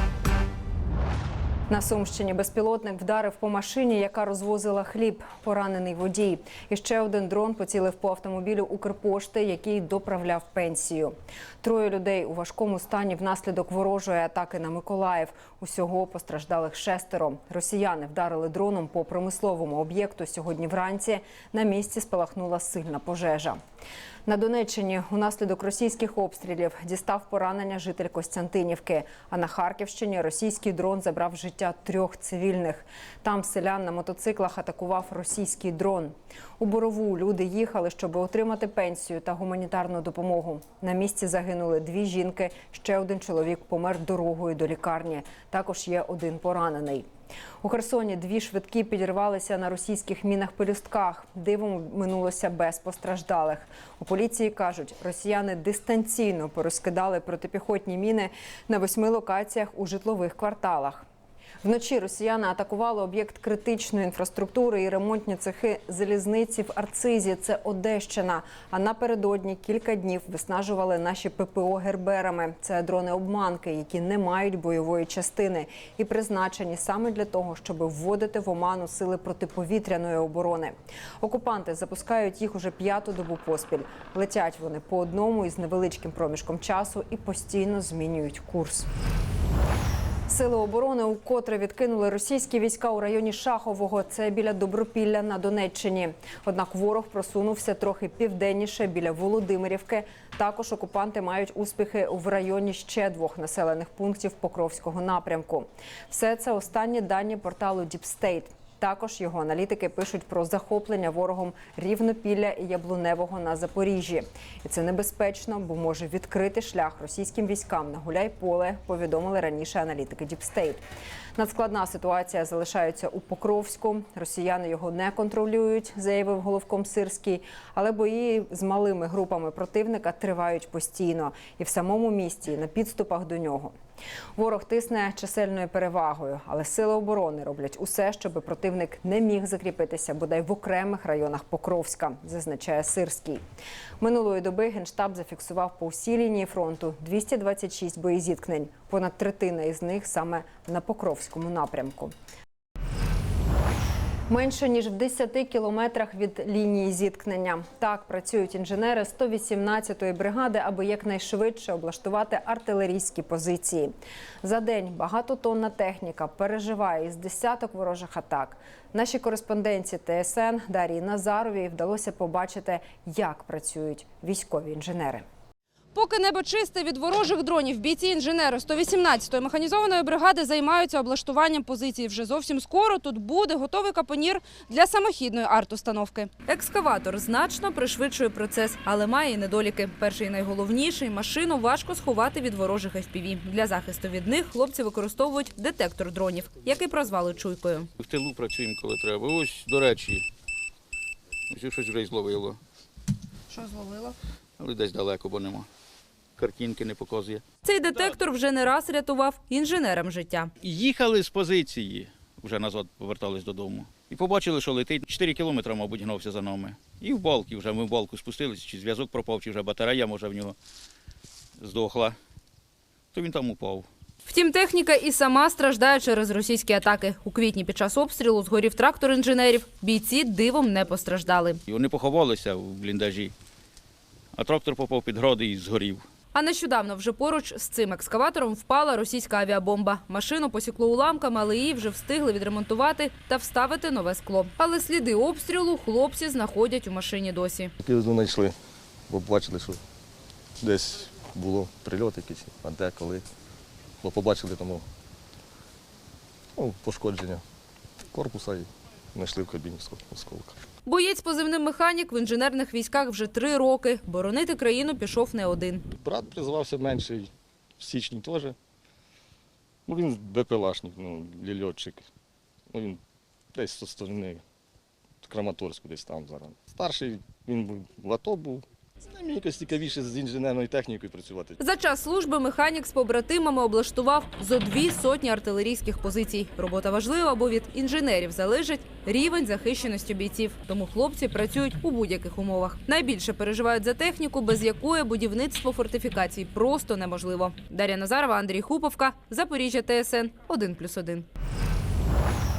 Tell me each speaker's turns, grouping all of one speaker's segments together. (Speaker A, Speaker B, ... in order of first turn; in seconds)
Speaker A: 1.7-23.6, 24.2-47.0, 47.6-61.0, 61.6-88.9, 90.3-120.8, 121.3-133.7, 134.4-143.4, 144.0-152.1, 154.3-175.2
Speaker B: 175.9-197.9, 203.5-204.1, 207.6-210.5, 224.2-231.6, 236.3-247.7, 260.8-265.8, 281.6-301.2
Speaker C: 198.0-200.2, 201.5-202.6, 204.6-205.7, 206.4-207.4, 210.6-220.6, 221.6-222.2, 223.1-223.9, 231.7-233.3, 234.3-236.0
Speaker D: 247.8-248.6, 249.1-249.8, 250.6-253.3, 254.0-254.8, 256.6-257.4, 258.1-260.6, 266.0-268.5, 269.9-272.1, 272.7-273.0, 273.5-274.4, 275.2-281.6